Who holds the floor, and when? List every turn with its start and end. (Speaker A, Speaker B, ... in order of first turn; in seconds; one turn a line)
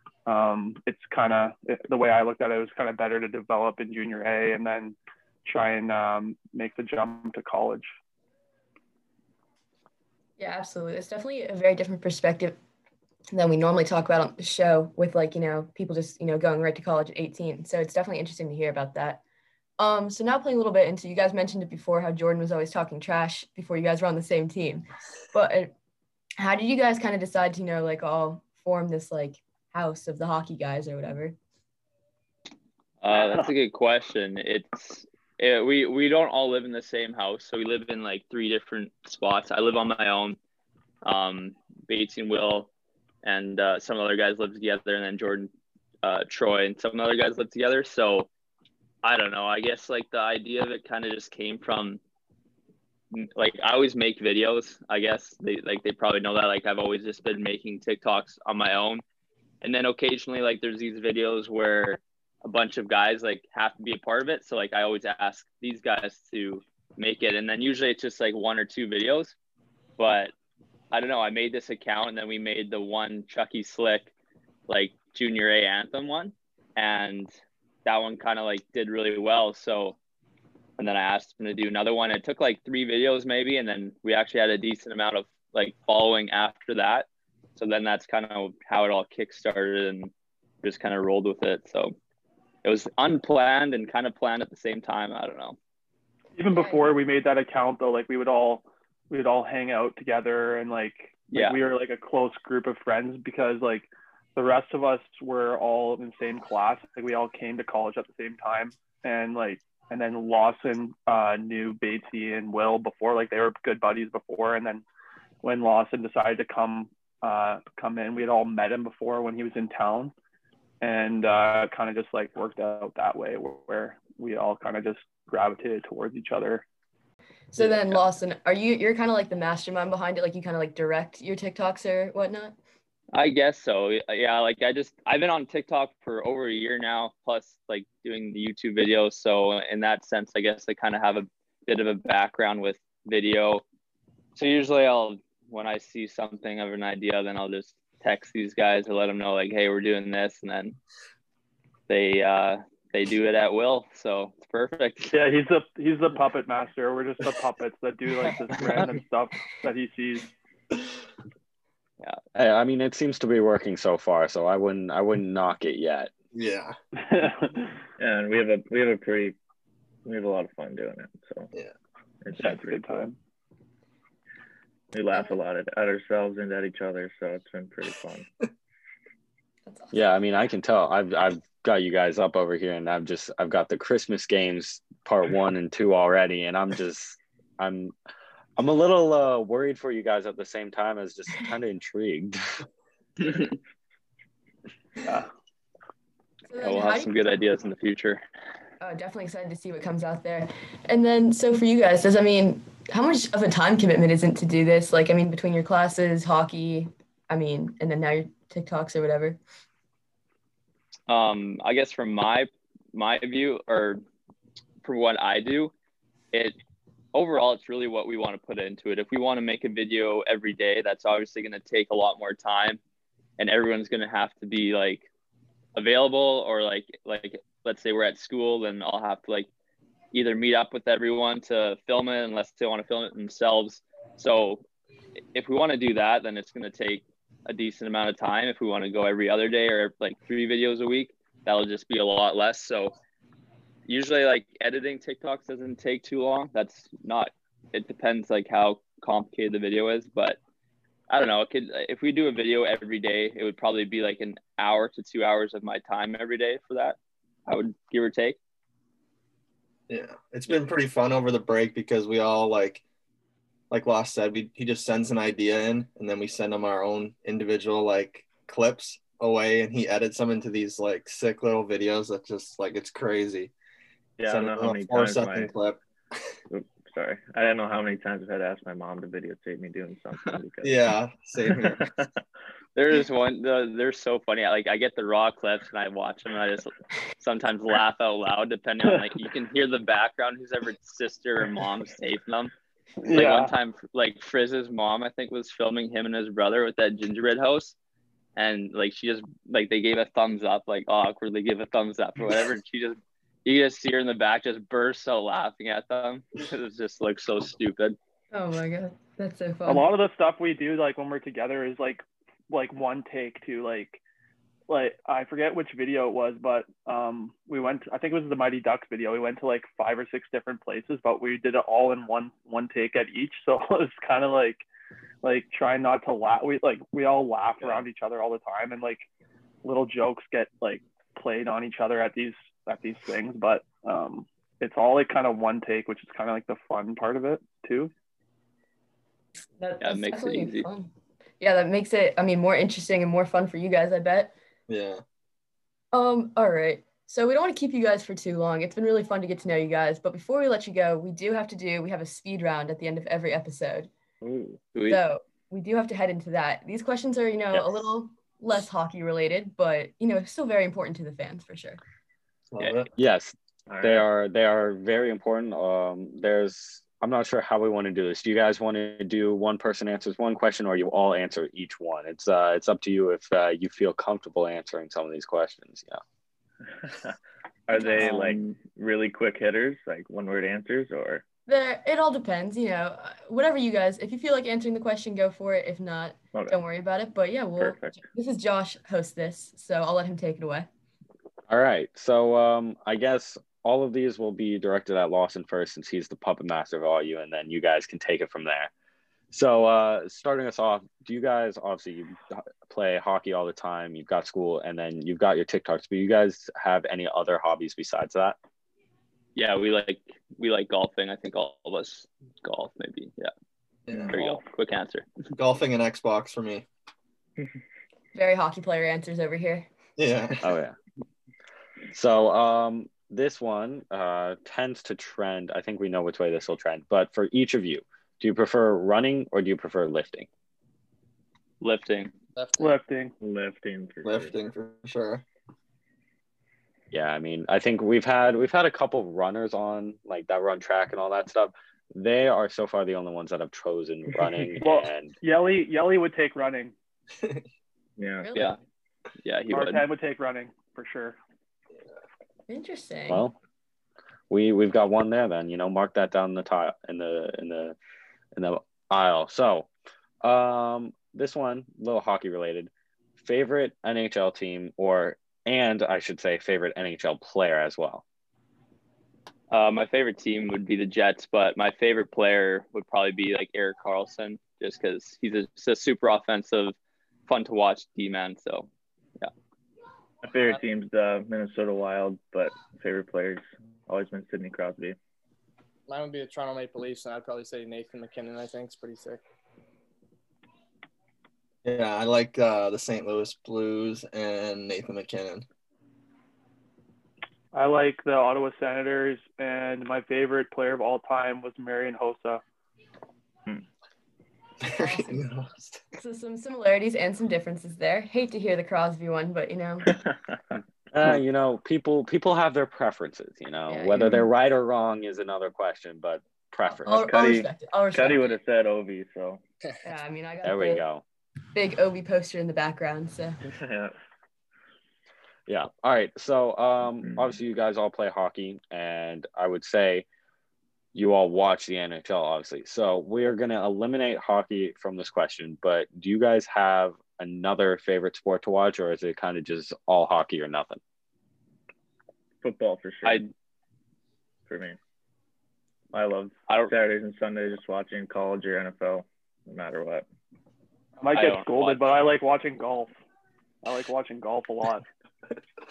Speaker A: 0.3-7.9
Speaker B: 10.4-12.6
Speaker B: 13.3-19.2
Speaker B: 19.8-25.7
Speaker B: 26.4-31.4
Speaker C: 33.0-40.4
Speaker A: 33.1-33.5
Speaker C: 41.0-42.7
Speaker C: 43.2-45.5
Speaker C: 46.0-48.3
Speaker C: 49.0-52.0
Speaker C: 53.1-59.0
Speaker C: 59.6-69.3
Speaker C: 70.0-70.3
Speaker C: 70.9-74.1
Speaker C: 74.7-77.3
Speaker C: 77.8-80.0
Speaker C: 80.8-90.1
Speaker C: 90.6-92.0
Speaker C: 92.6-95.6
Speaker A: 96.3-114.8
Speaker B: 96.5-96.9
Speaker A: 115.4-120.1
Speaker A: 120.8-126.6
Speaker B: 127.5-132.6
Speaker C: 133.1-143.6
Speaker C: 144.4-150.8
Speaker C: 151.9-155.2
Speaker A: 155.1-160.3
Speaker D: 162.3-166.1
Speaker E: 166.3-166.8
Speaker A: 167.1-167.7
Speaker F: 168.0-169.4
Speaker F: 170.1-171.5
Speaker F: 172.2-173.1
Speaker A: 172.3-173.2
Speaker F: 174.9-178.3
Speaker B: 179.7-179.9
Speaker D: 179.9-187.9
Speaker D: 188.6-192.6
Speaker B: 196.5-197.2
Speaker C: 196.6-198.2
Speaker B: 198.8-209.4
Speaker C: 211.1-214.0
Speaker C: 214.8-215.7
Speaker C: 216.3-216.6
Speaker C: 217.1-222.8
Speaker C: 223.4-225.1
Speaker C: 225.8-229.5
Speaker C: 230.1-234.7
Speaker C: 235.3-242.9
Speaker C: 243.9-250.4
Speaker C: 251.1-258.4
Speaker E: 259.9-262.8
Speaker E: 263.7-273.5
Speaker F: 274.2-275.5
Speaker E: 274.3-275.8
Speaker F: 276.5-280.9
Speaker E: 280.6-281.8
Speaker F: 281.7-282.1
Speaker C: 282.8-292.5
Speaker A: 288.9-289.1
Speaker A: 293.0-293.5
Speaker C: 293.1-297.8
Speaker C: 298.4-308.0
Speaker B: 308.3-309.9
Speaker A: 309.7-314.0
Speaker A: 314.7-324.6
Speaker A: 325.2-329.1
Speaker A: 329.6-337.9
Speaker B: 339.6-344.3
Speaker C: 339.8-340.7
Speaker E: 344.7-345.0
Speaker B: 345.9-353.9
Speaker F: 354.2-354.6
Speaker B: 354.9-361.8
Speaker E: 362.5-362.9
Speaker D: 363.0-376.0
Speaker F: 363.7-364.1
Speaker F: 376.9-377.1
Speaker F: 377.7-381.2
Speaker B: 377.7-378.1
Speaker C: 378.0-378.5
Speaker B: 381.5-390.7
Speaker F: 387.6-388.0
Speaker D: 391.5-398.7
Speaker D: 399.3-408.4
Speaker C: 409.4-413.3
Speaker E: 413.9-414.2
Speaker C: 414.1-415.1
Speaker E: 415.4-416.7
Speaker B: 418.1-419.7
Speaker E: 420.0-420.5
Speaker D: 420.4-420.8
Speaker D: 421.9-430.3
Speaker C: 431.6-432.1
Speaker G: 432.4-432.8
Speaker A: 432.6-433.1
Speaker F: 433.2-434.3
Speaker E: 434.0-435.2
Speaker D: 436.9-445.1
Speaker A: 444.6-446.7
Speaker F: 448.0-448.3
Speaker B: 448.2-448.6
Speaker C: 449.2-449.8
Speaker A: 449.5-451.2
Speaker B: 452.5-453.3
Speaker D: 453.1-453.3
Speaker D: 454.3-457.8
Speaker D: 458.4-459.7
Speaker D: 460.2-468.0
Speaker C: 469.5-476.8
Speaker C: 477.3-479.3
Speaker F: 480.2-485.0
Speaker G: 485.9-489.2
Speaker E: 491.6-495.4
Speaker A: 497.5-502.4
Speaker E: 504.6-505.9
Speaker B: 504.7-505.3
Speaker B: 506.0-509.9
Speaker F: 509.9-510.6
Speaker D: 510.9-517.2
Speaker B: 513.7-514.2
Speaker B: 516.7-518.4
Speaker F: 517.0-519.4
Speaker B: 519.8-520.8
Speaker D: 520.4-521.0
Speaker B: 521.5-523.4
Speaker F: 523.5-523.9
Speaker D: 525.5-530.1
Speaker F: 527.0-527.3
Speaker D: 530.9-540.8
Speaker F: 542.4-543.3
Speaker F: 544.5-544.8
Speaker F: 545.9-550.1
Speaker A: 551.0-552.9
Speaker C: 551.1-551.8
Speaker A: 553.6-554.9